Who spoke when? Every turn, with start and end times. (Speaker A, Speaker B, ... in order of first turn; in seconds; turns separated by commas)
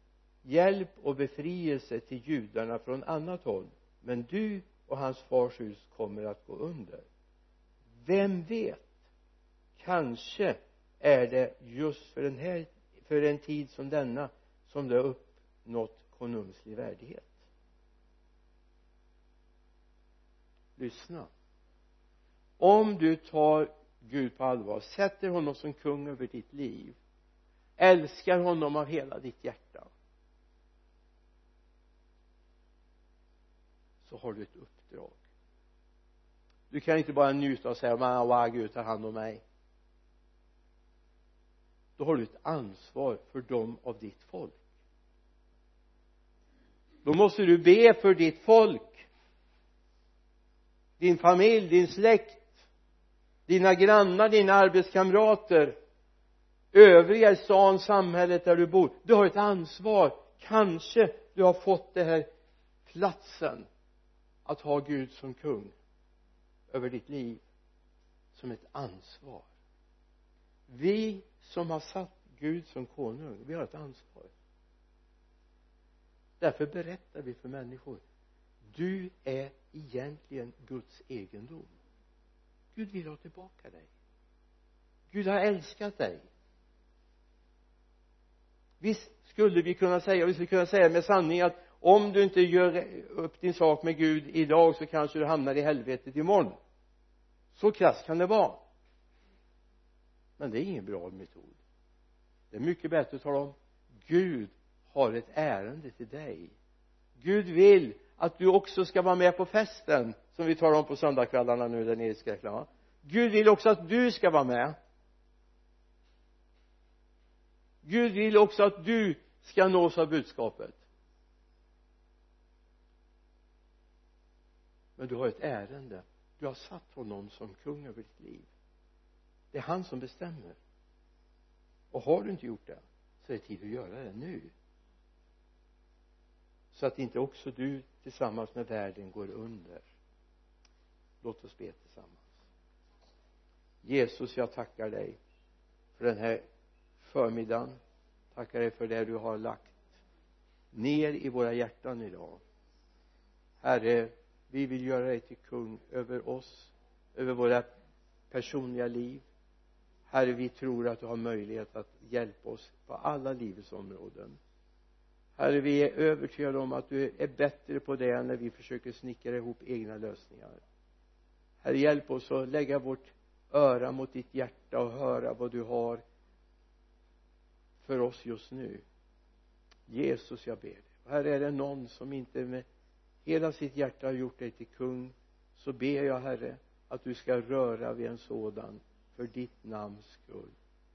Speaker A: 0.4-7.0, Speaker A: 8.0-8.8, Speaker A: 9.8-17.3, Speaker A: 20.8-21.3, Speaker A: 22.6-27.0, Speaker A: 27.8-29.9, Speaker A: 34.0-35.2, Speaker A: 36.7-39.4, Speaker A: 42.0-44.6, Speaker A: 47.0-49.0, Speaker A: 51.0-52.5, Speaker A: 53.5-55.8, Speaker A: 56.7-62.3, Speaker A: 62.9-63.7, Speaker A: 64.5-65.7, Speaker A: 66.7-67.4, Speaker A: 68.3-69.5, Speaker A: 70.7-74.3, Speaker A: 76.4-78.0, Speaker A: 78.7-81.7, Speaker A: 82.7-83.9, Speaker A: 85.1-86.2, Speaker A: 88.8-96.5, Speaker A: 97.5-98.6, Speaker A: 100.4-101.6, Speaker A: 102.5-106.5, Speaker A: 107.2-114.8, Speaker A: 117.8-120.8, Speaker A: 125.0-128.5, Speaker A: 129.5-130.6, Speaker A: 131.9-134.5, Speaker A: 136.7-139.8, Speaker A: 141.2-142.2, Speaker A: 143.8-145.2, Speaker A: 146.0-146.4, Speaker A: 147.0-147.8, Speaker A: 148.3-149.7, Speaker A: 150.7-152.4, Speaker A: 153.6-157.7, Speaker A: 158.3-159.2, Speaker A: 160.1-164.4, Speaker A: 165.4-170.6, Speaker A: 171.6-176.0, Speaker A: 177.8-178.8, Speaker A: 179.9-182.6, Speaker A: 183.2-190.5